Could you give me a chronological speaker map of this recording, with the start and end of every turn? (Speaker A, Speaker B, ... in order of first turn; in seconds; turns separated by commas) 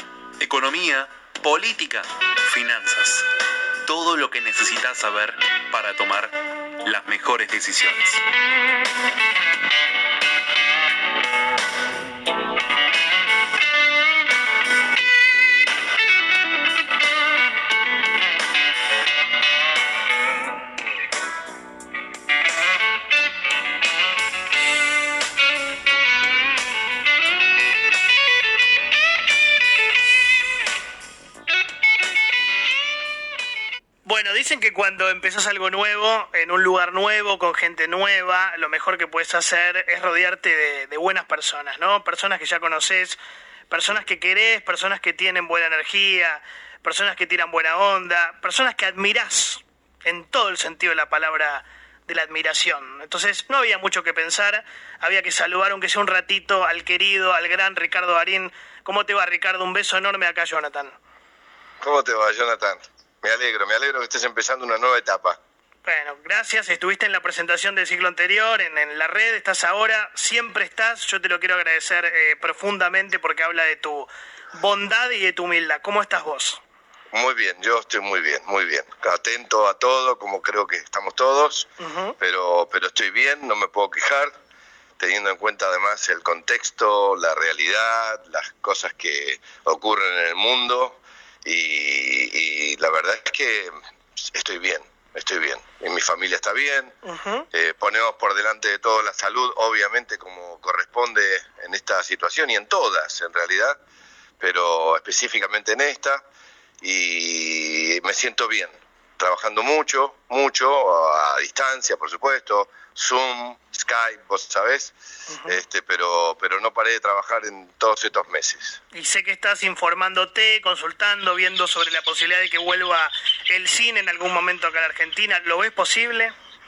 Speaker A: 0.4-3.3, Speaker A: 3.9-8.2, Speaker B: 34.1-43.2, Speaker B: 43.7-61.0, Speaker C: 61.8-65.4, Speaker B: 65.8-76.6, Speaker C: 77.1-84.4, Speaker B: 81.8-82.2, Speaker C: 85.0-97.0, Speaker B: 97.0-97.5, Speaker C: 97.5-103.8, Speaker C: 104.4-106.2, Speaker C: 106.8-114.9, Speaker B: 115.3-115.6, Speaker C: 115.5-118.8, Speaker B: 118.9-126.3